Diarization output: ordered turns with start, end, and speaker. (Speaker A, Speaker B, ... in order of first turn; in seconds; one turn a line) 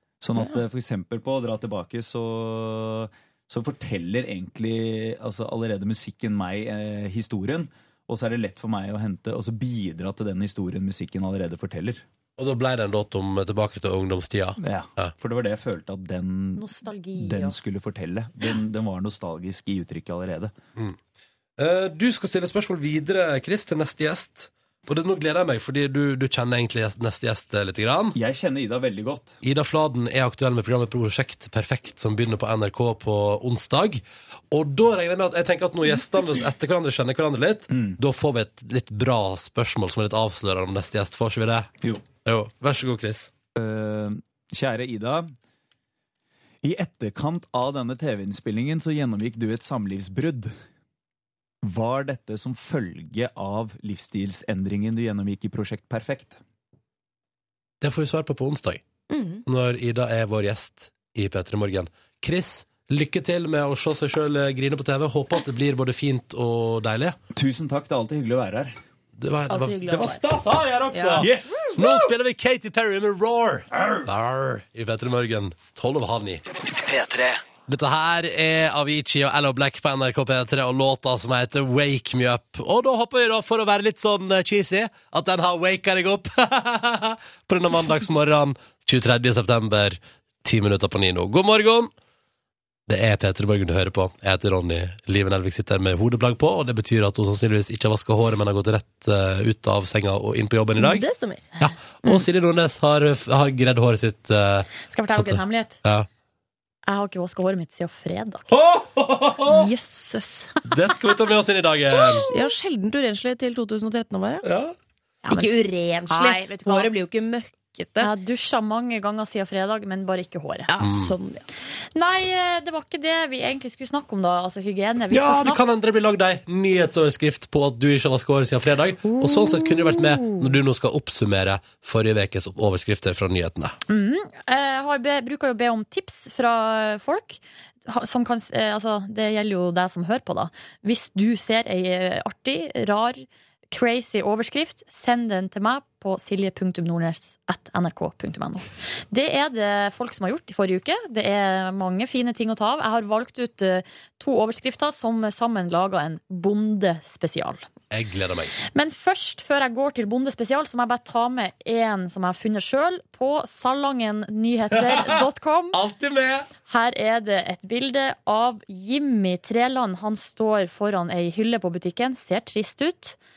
Speaker A: 0.2-12.0
Speaker B: 0.3-0.6
Speaker C: 12.4-15.1
Speaker A: 14.6-20.5
Speaker D: 16.6-17.6
Speaker C: 21.6-28.2
Speaker A: 28.1-29.4
Speaker C: 29.4-41.7
Speaker A: 37.7-38.0
Speaker C: 42.2-43.3
Speaker A: 43.5-45.3
Speaker A: 46.6-50.5
Speaker A: 51.6-56.4
Speaker C: 57.8-58.8
Speaker B: 59.1-59.4
Speaker C: 59.5-67.2
Speaker A: 67.3-68.8
Speaker C: 69.2-76.4
Speaker B: 69.5-70.2
Speaker B: 70.9-71.3
Speaker A: 71.2-72.1
Speaker C: 77.7-91.9
Speaker C: 92.9-101.0
Speaker B: 100.8-101.5
Speaker C: 101.6-106.1
Speaker D: 104.9-105.8
Speaker D: 106.9-108.5
Speaker C: 108.5-109.7
Speaker B: 109.5-110.5
Speaker C: 110.6-112.2
Speaker B: 111.9-114.4
Speaker C: 114.4-114.7
Speaker D: 115.2-116.9
Speaker B: 115.3-118.1
Speaker D: 118.0-120.7
Speaker B: 120.7-121.4
Speaker C: 120.8-121.1
Speaker D: 121.9-125.6
Speaker C: 125.1-133.8
Speaker D: 129.0-130.6
Speaker D: 133.9-157.7
Speaker C: 157.9-158.5
Speaker D: 158.7-165.8
Speaker C: 164.7-165.2
Speaker C: 165.7-166.5
Speaker D: 166.7-173.2